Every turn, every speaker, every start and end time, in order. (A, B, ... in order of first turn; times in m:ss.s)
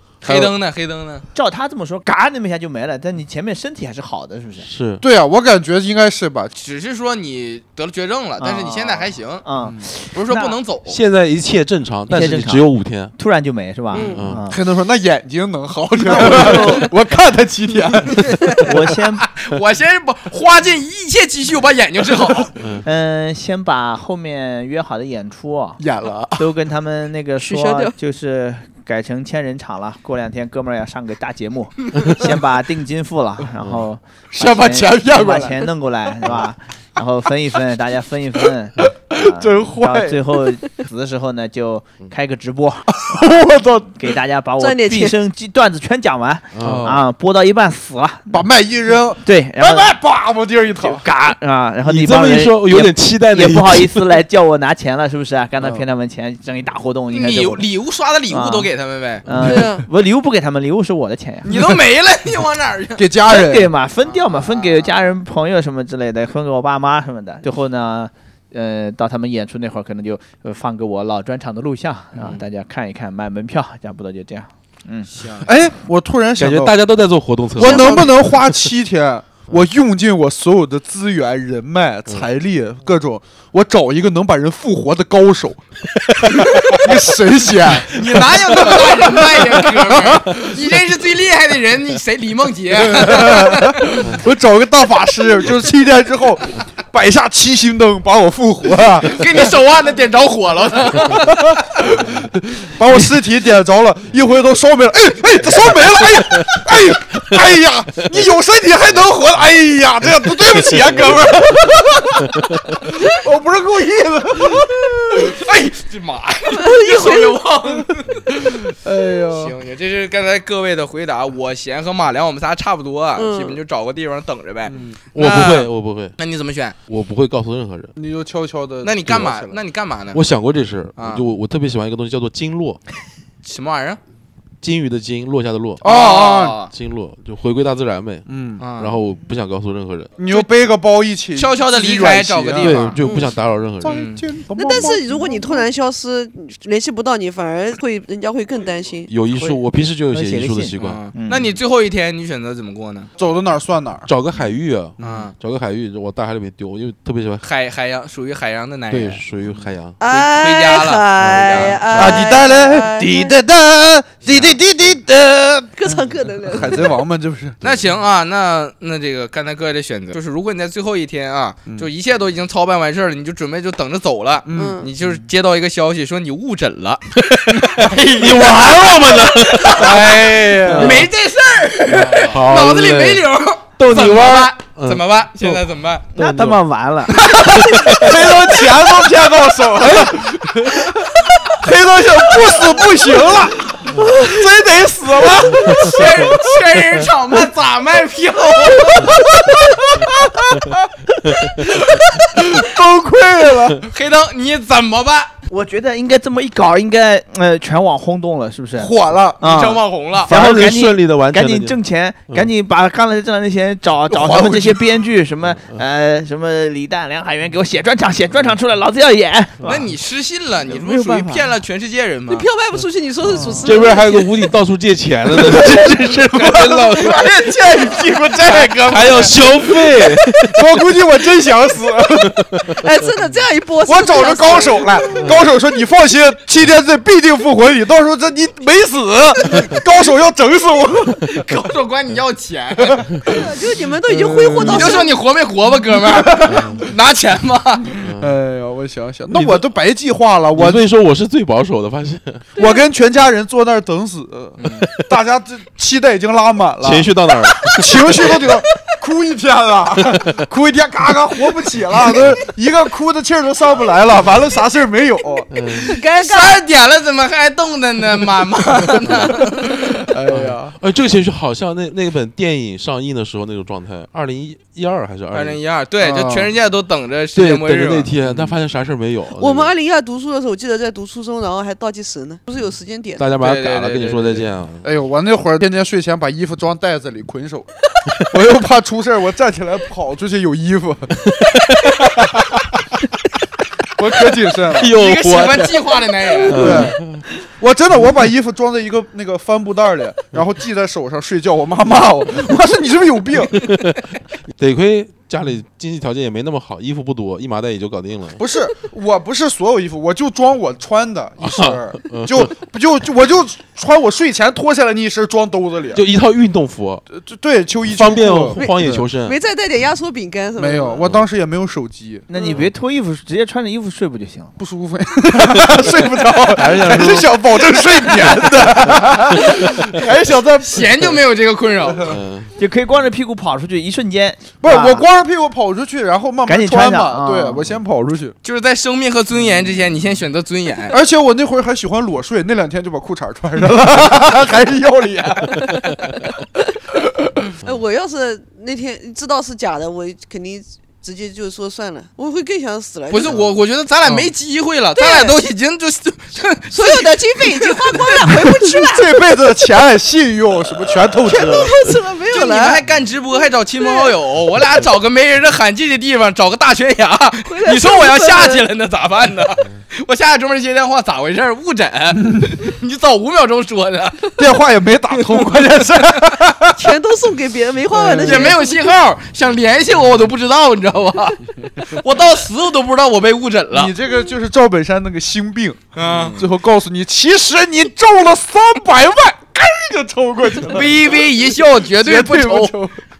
0:00.2-0:01.2 A
0:00.2-0:00.5 B
0:01.3-0:04.7 C
0:04.6-0:05.0 D
0:05.0-0:06.5 B
0:06.5-0:09.4 A
0:08.4-0:10.6 C
0:09.6-0:09.9 B
0:10.1-0:11.0 A
0:10.9-0:13.1 D
0:12.1-0:14.6 C
0:13.9-0:14.2 E
0:14.0-0:14.4 D
0:14.4-0:18.8 B
0:16.0-0:16.9 C
0:18.6-0:19.2 C
0:19.2-0:22.5 A
0:22.6-0:22.8 D
0:22.8-0:25.8 C
0:25.8-0:26.5 B
0:26.4-0:48.4 C
0:27.4-0:27.9 E
0:33.6-0:33.8 D
0:34.3-0:35.7 B
0:38.9-0:40.2 B
0:43.1-0:43.7 B
0:44.6-0:45.2 E
0:46.5-0:47.0 D
0:46.6-0:47.0 B
0:48.3-0:51.1 B
0:49.2-0:50.0 C
0:50.8-0:57.6 C
0:51.8-0:54.1 D
0:55.6-0:55.8 B
0:57.1-0:59.2 A
0:58.3-0:58.7 C
0:59.2-1:01.5 C
0:59.3-0:59.7 B
0:59.4-0:59.8 E
1:01.4-1:03.1 A
1:01.5-1:01.8 B
1:03.0-1:03.7 B
1:03.3-1:15.1 C
1:04.0-1:05.0 A
1:15.1-1:15.5 A
1:15.4-1:16.7 B
1:16.4-1:18.5 D
1:17.6-1:30.5 B
1:27.9-1:34.0 A
1:32.8-1:39.4 B
1:38.8-1:41.3 A
1:41.0-1:55.4 B
1:55.1-1:58.4 A
1:56.5-1:57.4 E
1:58.7-1:59.5 B
1:59.3-2:06.8 A
2:03.1-2:03.6 E
2:04.7-2:05.0 B
2:05.1-2:06.1 D
2:06.9-2:07.9 D
2:08.0-2:09.6 B
2:08.8-2:10.2 A
2:10.1-2:12.8 D
2:11.0-2:11.2 A
2:13.4-2:14.0 A
2:14.6-2:15.8 D
2:15.8-2:16.6 B
2:15.8-2:16.7 A
2:16.7-2:20.1 D
2:18.3-2:18.6 B
2:18.6-2:19.0 A
2:20.2-2:23.2 B
2:21.3-2:23.0 A
2:22.6-2:24.0 D
2:23.0-2:23.3 E
2:23.8-2:25.7 B
2:23.8-2:24.2 A
2:24.5-2:29.1 E
2:29.1-2:31.0 D
2:30.1-2:31.6 C
2:30.8-2:33.1 A
2:33.2-2:34.1 B
2:34.0-2:37.4 D
2:35.0-2:35.3 B
2:35.0-2:35.3 A
2:37.4-2:39.2 A
2:38.9-2:40.0 D
2:40.0-2:43.4 E
2:40.1-2:41.8 A
2:41.2-2:42.3 D
2:41.9-2:47.6 B
2:44.2-2:44.5 A
2:45.8-2:47.0 E
2:47.6-2:47.9 D
2:47.6-3:06.0 A
2:54.4-2:54.8 B
2:54.5-2:54.9 E
2:57.3-3:01.1 D
2:57.8-2:58.3 B
2:59.7-3:01.1 B
3:02.0-3:02.3 B
3:02.0-3:05.6 D
3:06.1-3:06.6 D
3:06.1-3:07.2 C
3:07.2-3:16.6 B
3:07.5-3:08.3 D
3:15.5-3:19.1 A
3:18.6-3:20.8 B
3:21.4-3:23.9 B
3:23.9-3:25.3 A
3:25.5-3:39.9 C
3:28.8-3:29.7 B
3:29.4-3:30.3 A
3:30.2-3:32.5 D
3:34.1-3:34.8 B
3:39.6-3:42.5 A
3:40.6-3:41.5 C
3:42.3-3:44.4 E
3:43.6-3:47.2 D
3:45.3-3:49.3 B
3:46.4-3:47.1 A
3:47.1-3:47.9 E
3:48.2-3:49.6 A
3:48.8-3:50.9 D
3:50.4-3:52.4 B
3:52.2-3:52.7 D
3:52.7-3:55.4 E
3:53.8-4:01.4 B
4:01.3-4:03.2 A
4:02.8-4:03.4 B
4:03.2-4:05.2 E
4:04.0-4:05.1 B
4:04.6-4:07.9 A
4:05.8-4:06.8 B
4:08.0-4:08.3 D
4:08.2-4:10.8 B
4:09.3-4:09.7 D
4:10.5-4:12.5 D
4:12.6-4:25.5 B
4:14.6-4:14.9 A
4:14.8-4:15.1 D
4:16.8-4:18.2 D
4:17.7-4:18.5 A
4:20.0-4:20.4 D
4:25.5-4:25.9 D
4:25.8-4:26.6 E
4:25.8-4:29.8 A
4:30.1-4:30.8 B
4:30.3-4:35.6 D
4:35.3-4:38.1 A
4:36.0-4:36.5 B
4:37.3-4:39.7 D
4:38.2-4:38.5 B
4:39.3-4:43.2 E
4:43.2-4:44.9 D
4:43.4-4:44.5 A
4:44.8-4:47.7 B
4:48.2-4:51.2 B
4:51.2-4:52.6 D
4:53.9-4:54.9 B
4:54.6-4:57.2 D
4:54.8-4:56.9 A
4:56.4-5:03.7 B
5:03.6-5:04.0 D
5:04.5-5:08.4 D
5:08.4-5:16.0 B
5:11.4-5:12.6 D
5:15.9-5:17.0 D
5:17.1-5:19.0 B
5:17.9-5:19.4 D
5:18.6-5:21.1 E
5:20.6-5:22.2 B
5:22.3-5:24.5 C
5:24.6-5:31.2 B
5:26.5-5:27.4 C
5:28.4-5:30.0 D
5:30.6-5:32.2 A
5:31.9-5:32.2 B
5:32.0-5:32.5 D
5:32.6-5:35.0 C
5:34.6-5:38.3 B
5:36.4-5:37.6 C
5:38.4-5:41.0 A
5:40.9-5:46.0 B
5:46.9-5:47.5 B
5:47.6-5:53.3 E
5:53.1-5:58.2 A
5:55.0-5:55.4 E
5:56.7-5:59.2 E
5:58.2-6:01.7 B
6:01.2-6:02.8 E
6:02.3-6:14.5 A
6:03.8-6:04.2 E
6:07.5-6:08.7 E
6:14.4-6:16.9 B
6:15.1-6:15.7 A
6:16.8-6:18.7 E
6:17.9-6:18.6 B
6:18.1-6:23.9 A
6:23.7-6:33.0 B
6:25.9-6:26.4 A
6:30.7-6:32.8 A